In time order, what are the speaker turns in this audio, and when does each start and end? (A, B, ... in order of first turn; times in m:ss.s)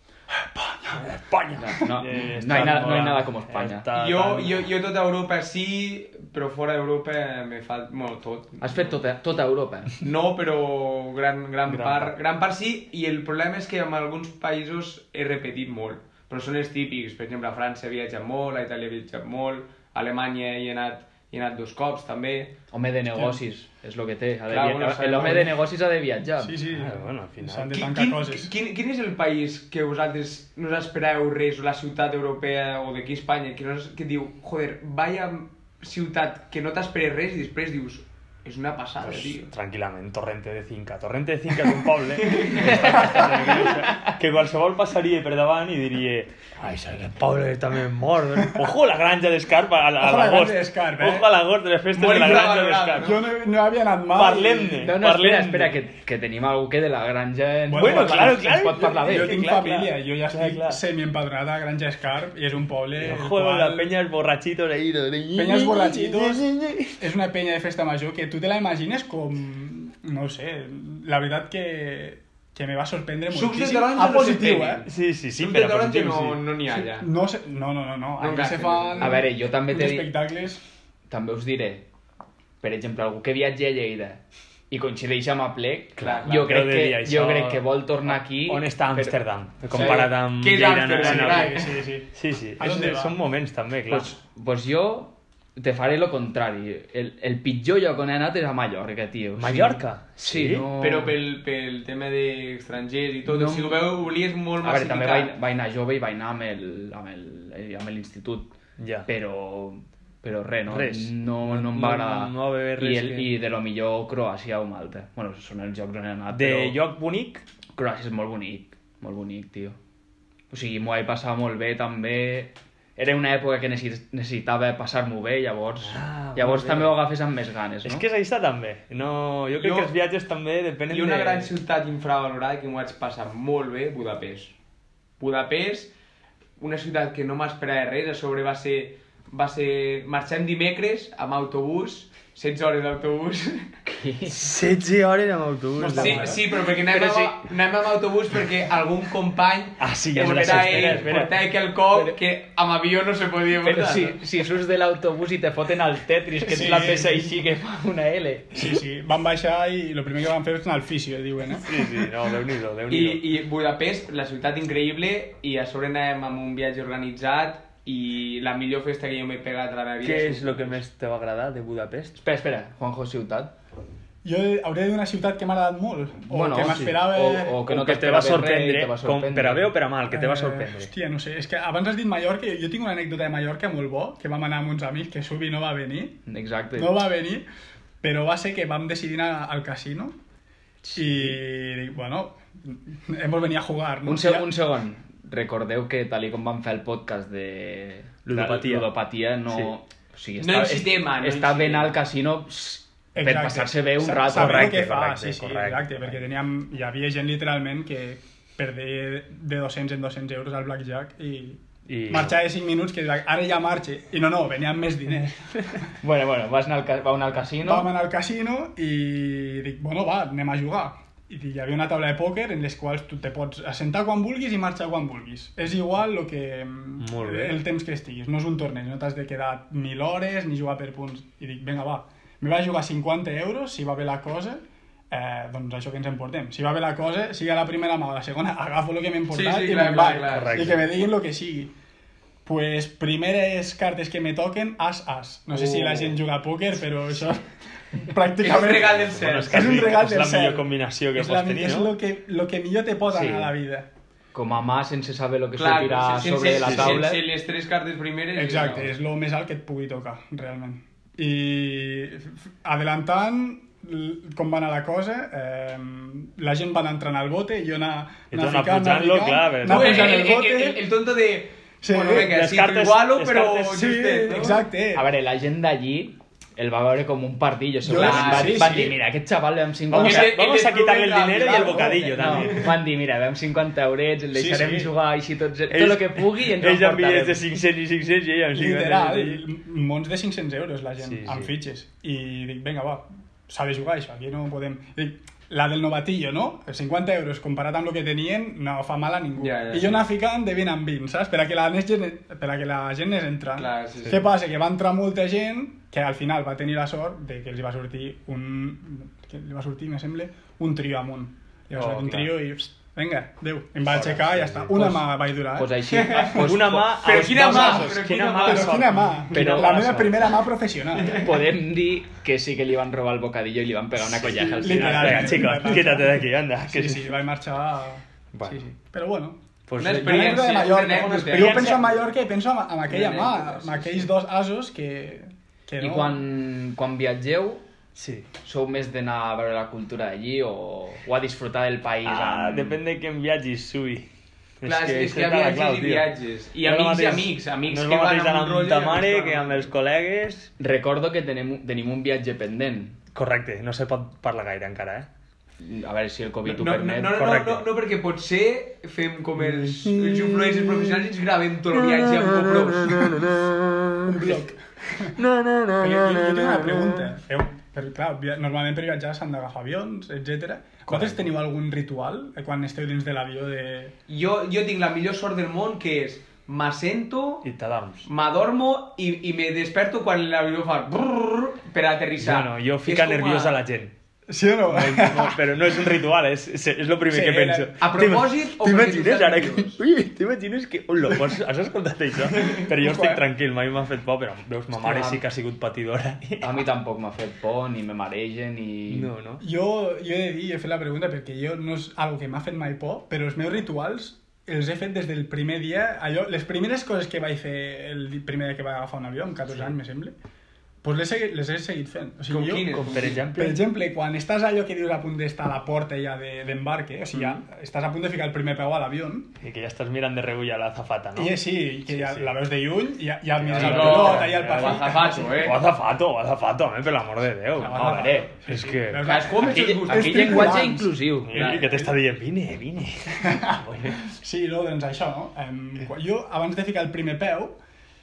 0:00.4-0:01.1 A
0:00.9-0:04.7 B
0:01.6-0:03.9 C
0:03.9-0:08.9 D
0:08.6-0:10.0 C
0:10.0-0:22.6 D
0:11.7-0:12.2 B
0:22.7-0:26.6 C
0:24.5-0:25.6 D
0:26.4-0:28.5 A
0:26.7-0:27.8 B
0:27.7-0:39.5 D
0:39.0-0:53.1 B
0:42.1-0:43.7 D
0:50.0-0:51.3 A
0:51.9-0:53.2 D
0:52.1-0:52.4 A
0:53.0-0:55.0 A
0:54.1-0:55.8 B
0:54.8-0:59.4 C
0:57.7-1:03.9 A
0:57.7-1:00.8 B
1:03.0-1:07.0 B
1:05.4-1:14.8 A
1:13.3-1:17.1 D
1:14.9-1:16.4 B
1:16.7-1:20.6 A
1:18.2-1:19.2 D
1:19.0-1:20.1 C
1:21.1-1:21.9 C
1:22.6-1:29.2 C
1:26.0-1:34.1 B
1:26.0-1:26.4 D
1:29.7-1:30.1 C
1:29.7-1:31.8 D
1:30.9-1:33.2 A
1:33.9-1:41.2 C
1:39.4-1:40.7 B
1:40.8-1:45.3 D
1:43.3-1:43.9 C
1:44.6-1:48.5 C
1:48.8-1:49.1 B
1:49.0-1:56.8 C
1:50.7-1:53.3 B
1:56.3-1:57.4 B
1:57.8-1:59.8 C
2:00.5-2:08.0 C
2:05.8-2:07.0 B
2:07.8-2:11.5 B
2:09.5-2:09.9 D
2:10.9-2:14.5 D
2:15.2-2:15.9 D
2:16.6-2:23.7 D
2:23.8-2:24.4 C
2:24.3-2:26.4 B
2:25.8-2:26.4 A
2:26.0-2:34.2 D
2:26.7-2:27.4 C
2:29.8-2:31.2 B
2:30.2-2:31.4 C
2:31.9-2:32.2 C
2:33.6-2:38.7 C
2:36.4-2:37.3 A
2:38.5-2:41.7 A
2:41.6-2:43.2 B
2:42.9-2:50.8 D
2:50.0-2:52.2 B
2:52.2-2:53.5 C
2:54.2-2:57.6 A
2:56.3-2:59.7 C
2:56.6-2:56.9 B
2:57.6-3:00.9 B
3:00.1-3:06.2 A
3:06.3-3:07.0 C
3:06.8-3:07.4 A
3:08.0-3:10.2 A
3:11.0-3:14.5 A
3:14.0-3:24.8 C
3:18.2-3:18.9 B
3:20.4-3:22.0 D
3:23.2-3:35.4 A
3:24.3-3:26.2 B
3:31.9-3:32.4 B
3:36.0-3:37.9 C
3:37.6-4:01.7 A
3:47.0-3:47.6 B
3:59.3-4:00.8 D
4:00.3-4:00.8 B
4:02.4-4:13.9 A
4:08.4-4:10.0 D
4:08.9-4:11.9 B
4:13.1-4:13.5 C
4:14.3-4:17.2 C
4:15.6-4:18.9 D
4:16.6-4:17.0 B
4:18.4-4:30.8 A
4:28.3-4:30.2 B
4:29.6-4:34.6 D
4:31.8-4:32.4 A
4:32.1-4:33.8 B
4:33.7-4:35.1 A
4:34.9-4:40.3 C
4:37.8-4:39.0 A
4:37.9-4:38.9 D
4:39.9-4:42.7 B
4:39.9-4:42.7 D
4:41.9-4:42.6 A
4:42.2-4:47.4 C
4:44.3-4:44.9 A
4:45.7-4:49.4 B
4:48.5-5:15.8 A
4:51.0-4:51.5 B
4:59.4-5:00.0 D
5:03.6-5:04.2 D
5:11.7-5:12.4 B
5:13.9-5:15.0 B
5:15.6-5:17.8 C
5:15.9-5:18.9 D
5:16.3-5:20.3 B
5:17.5-5:21.3 A
5:19.3-5:20.0 C
5:21.0-5:21.3 D
5:21.1-5:25.6 C
5:24.2-5:27.1 B
5:24.3-5:36.2 A
5:28.3-5:28.6 B
5:29.7-5:30.6 B
5:29.8-5:32.0 D
5:31.3-5:31.9 B
5:32.9-5:34.1 D
5:35.8-5:37.6 C
5:38.0-5:38.3 B
5:38.4-5:42.8 C
5:42.0-5:44.1 B
5:44.6-5:46.1 B
5:44.6-5:49.7 D
5:46.6-5:50.5 B
5:50.6-5:53.0 C
5:53.1-5:55.1 B
5:55.6-5:57.4 C
5:56.5-6:03.3 D
5:57.2-5:57.6 B
5:59.6-6:00.9 B
6:01.9-6:04.2 B
6:04.0-6:05.2 A
6:05.2-6:07.0 B
6:05.8-6:13.9 A
6:10.9-6:11.2 B
6:14.1-6:17.5 D
6:17.4-6:18.1 B
6:18.0-6:23.6 D
6:22.2-6:23.9 B
6:24.3-6:26.0 A
6:24.7-6:36.5 B
6:27.1-6:27.7 A
6:27.8-6:29.8 D
6:32.6-6:33.2 A
6:34.7-6:35.2 C
6:36.4-6:39.1 C
6:38.9-6:39.4 B
6:39.4-6:50.1 A
6:50.8-6:59.3 A
6:52.3-6:53.3 D
6:52.6-6:53.6 B
6:57.1-6:57.4 D
6:59.4-7:01.4 B
7:01.2-7:05.5 A
7:01.9-7:02.3 B
7:03.4-7:09.1 B
7:03.5-7:05.7 D
7:07.6-7:11.0 A
7:07.7-7:08.3 C
7:09.0-7:10.7 D
7:09.5-7:11.6 C
7:11.2-7:14.0 B
7:11.3-7:11.9 D
7:13.2-7:17.6 A